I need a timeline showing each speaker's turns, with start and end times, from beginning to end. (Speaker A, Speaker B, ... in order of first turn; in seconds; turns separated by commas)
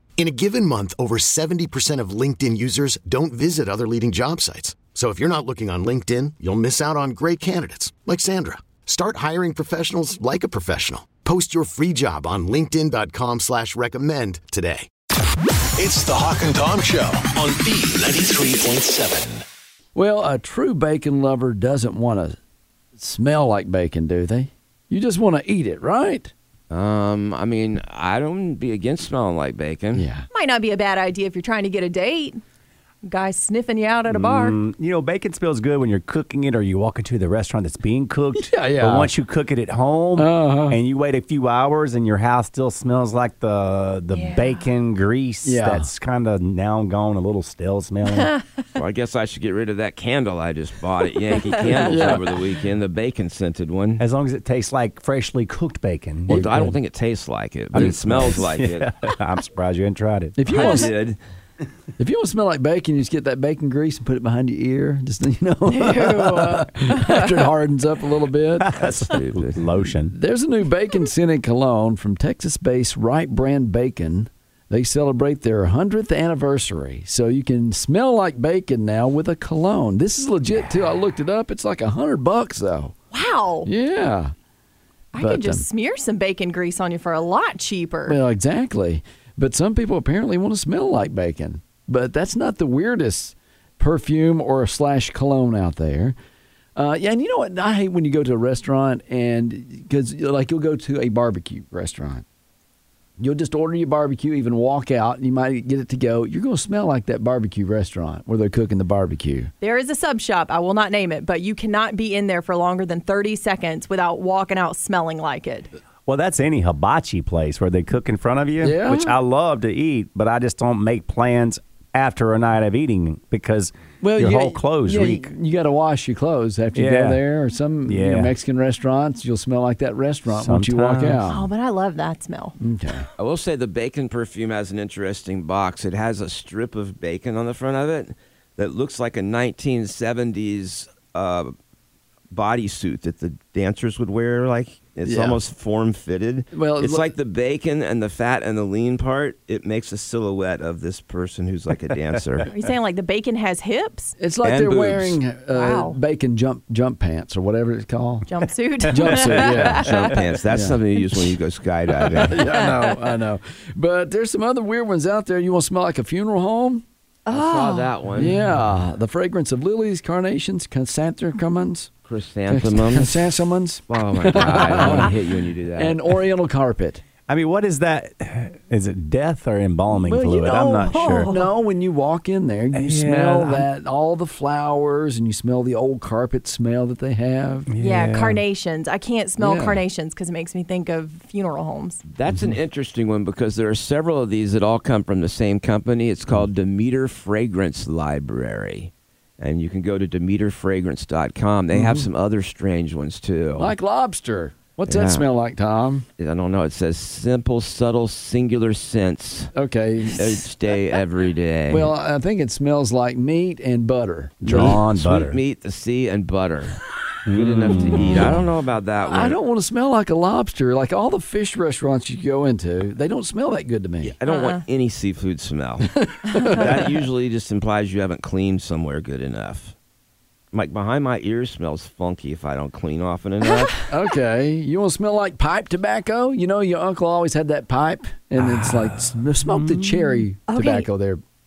Speaker A: 0.2-14.9, Speaker B: 15.8-19.4, Speaker C: 19.9-22.4, Speaker C: 23.0-26.3, Speaker D: 26.7-30.1, Speaker C: 29.9-30.3, Speaker E: 30.3-32.4, Speaker E: 33.0-34.6, Speaker F: 34.1-48.3, Speaker C: 38.4-39.1, Speaker C: 40.1-40.8, Speaker E: 44.1-44.6, Speaker C: 45.4-45.9, Speaker D: 48.7-54.0, Speaker C: 51.7-52.2, Speaker F: 54.0-56.7, Speaker D: 56.3-58.9, Speaker C: 56.3-56.7, Speaker F: 57.7-60.4, Speaker C: 57.7-58.4, Speaker C: 60.4-60.9, Speaker D: 60.5-61.2, Speaker E: 60.5-60.9, Speaker C: 62.0-68.8, Speaker E: 65.7-67.4, Speaker F: 68.6-70.1, Speaker D: 68.8-69.6, Speaker C: 70.1-82.9, Speaker E: 83.1-83.7, Speaker C: 83.6-84.3, Speaker E: 85.1-88.2, Speaker C: 85.2-85.6, Speaker C: 88.0-96.1, Speaker C: 96.8-102.2, Speaker C: 103.2-109.5, Speaker E: 109.6-115.7, Speaker F: 116.0-125.3, Speaker C: 118.6-119.2, Speaker C: 124.0-131.5, Speaker F: 126.7-127.2, Speaker F: 127.8-128.3, Speaker F: 130.3-131.2, Speaker E: 131.2-132.6, Speaker C: 132.6-133.1, Speaker D: 133.2-141.5, Speaker D: 142.3-152.5, Speaker C: 145.0-145.4, Speaker C: 146.5-147.1, Speaker E: 152.5-154.2, Speaker C: 154.2-158.3, Speaker D: 154.4-155.2, Speaker E: 155.5-156.0, Speaker E: 158.3-160.2, Speaker C: 158.9-159.8, Speaker D: 159.8-162.5, Speaker C: 160.5-160.8, Speaker C: 162.1-166.8, Speaker E: 162.6-163.1, Speaker E: 167.2-167.9, Speaker D: 167.3-168.3, Speaker C: 168.1-171.9, Speaker D: 172.1-173.3, Speaker C: 172.5-175.2, Speaker D: 173.9-176.1, Speaker C: 175.7-177.0, Speaker F: 177.3-181.3, Speaker C: 179.9-187.7, Speaker E: 180.8-181.5, Speaker F: 182.7-183.7, Speaker F: 187.7-188.4, Speaker E: 187.8-192.0, Speaker C: 189.4-189.8, Speaker D: 192.1-203.7, Speaker F: 192.3-192.6, Speaker C: 201.7-202.1, Speaker C: 203.6-206.1, Speaker D: 204.9-205.2, Speaker D: 206.2-209.5, Speaker C: 209.5-210.5, Speaker D: 210.2-211.9, Speaker C: 211.7-214.7, Speaker F: 214.4-215.4, Speaker D: 214.5-219.4, Speaker F: 217.2-218.4, Speaker C: 219.1-224.1, Speaker D: 224.0-229.7, Speaker E: 224.2-224.6, Speaker C: 225.9-226.9, Speaker D: 230.5-233.8, Speaker C: 233.9-241.2, Speaker F: 238.4-240.3, Speaker E: 240.5-240.9